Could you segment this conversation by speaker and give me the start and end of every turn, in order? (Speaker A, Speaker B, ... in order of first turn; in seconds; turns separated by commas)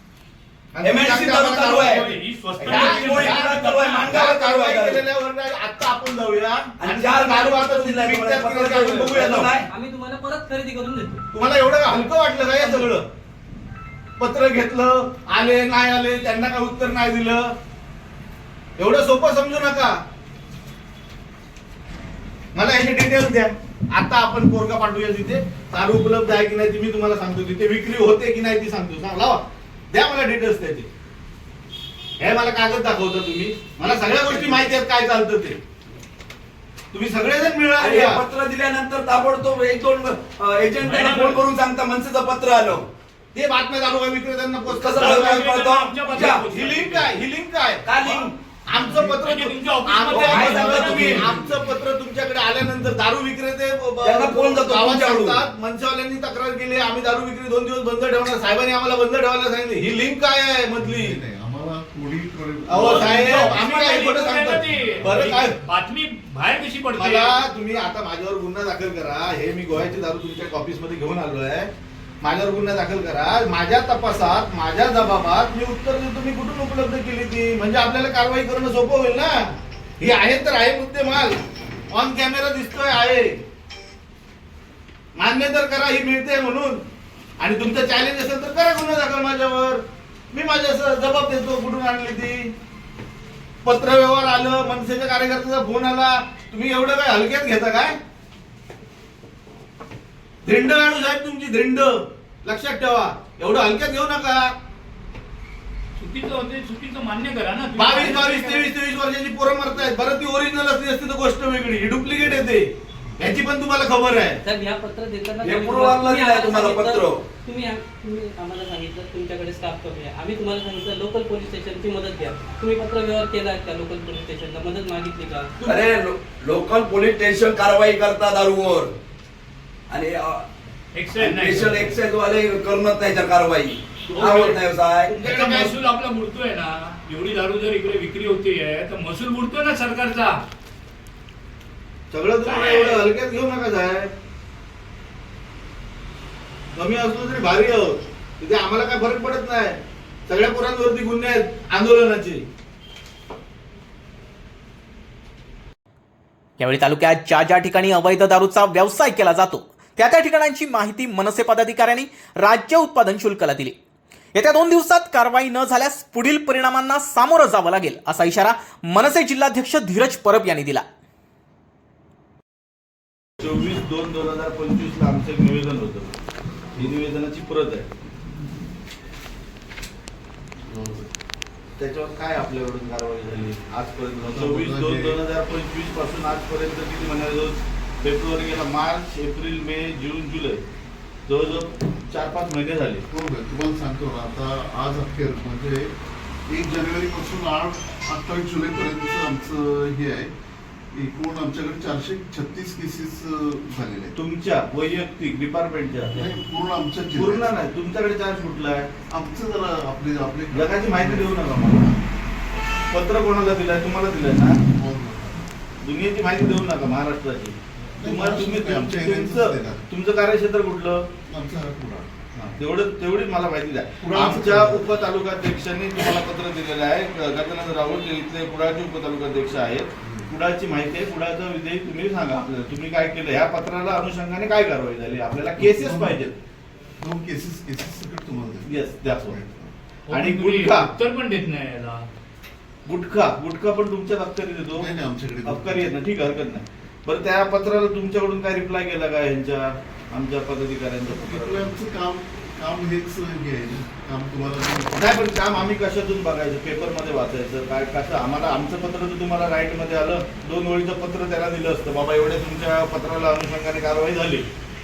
Speaker A: 0.7-2.1, Speaker B: 0.8-2.0, Speaker C: 1.6-4.2, Speaker B: 2.6-5.0, Speaker A: 2.6-9.6, Speaker B: 6.8-9.7, Speaker D: 9.7-11.2, Speaker A: 11.3-13.0, Speaker D: 12.6-12.9, Speaker A: 14.2-17.5, Speaker A: 18.8-20.0, Speaker A: 22.5-30.9, Speaker A: 32.2-35.6, Speaker B: 34.3-34.7, Speaker A: 36.9-38.2, Speaker B: 37.8-42.9, Speaker C: 40.8-41.4, Speaker A: 43.3-61.2, Speaker B: 44.7-46.5, Speaker C: 45.0-47.1, Speaker B: 47.8-48.3, Speaker C: 48.9-51.3, Speaker B: 50.1-51.3, Speaker E: 51.2-51.7, Speaker B: 54.0-55.5, Speaker E: 60.8-63.5, Speaker A: 62.7-65.6, Speaker C: 62.8-67.3, Speaker A: 67.0-71.7, Speaker A: 72.2-79.5, Speaker A: 80.0-83.3, Speaker A: 85.2-86.8, Speaker A: 87.4-89.8, Speaker A: 90.3-92.5, Speaker A: 93.6-98.0, Speaker A: 100.4-104.5, Speaker C: 106.0-108.7, Speaker A: 107.8-114.4, Speaker D: 114.4-125.5, Speaker B: 115.4-117.2, Speaker A: 125.6-126.0, Speaker B: 125.6-128.9, Speaker B: 129.9-130.5, Speaker C: 130.9-131.9, Speaker B: 131.2-135.2, Speaker A: 134.1-135.7, Speaker C: 134.2-134.5, Speaker C: 135.1-140.4, Speaker A: 142.1-144.1, Speaker C: 142.4-143.0, Speaker A: 146.7-152.4, Speaker F: 156.6-163.8, Speaker F: 164.3-170.8, Speaker A: 173.4-176.1, Speaker A: 176.8-177.8, Speaker E: 180.7-181.1, Speaker A: 181.8-190.6, Speaker E: 184.2-185.2, Speaker A: 191.3-193.0, Speaker E: 193.1-195.9, Speaker E: 196.5-200.3, Speaker E: 200.9-204.1, Speaker A: 204.1-206.2, Speaker E: 206.1-207.6, Speaker A: 207.2-208.9, Speaker E: 209.1-211.9, Speaker A: 210.5-211.9, Speaker A: 212.9-214.6, Speaker E: 214.7-215.5, Speaker A: 215.8-221.1, Speaker E: 217.9-219.8, Speaker E: 221.2-222.1, Speaker A: 222.3-236.3, Speaker E: 224.0-224.8, Speaker E: 230.0-230.3, Speaker E: 235.6-236.3, Speaker E: 237.0-239.7, Speaker A: 238.7-239.3, Speaker C: 240.1-242.0, Speaker A: 240.1-240.9, Speaker A: 242.8-244.9, Speaker E: 244.8-245.9, Speaker A: 245.4-251.7, Speaker E: 251.1-255.7, Speaker A: 254.9-264.4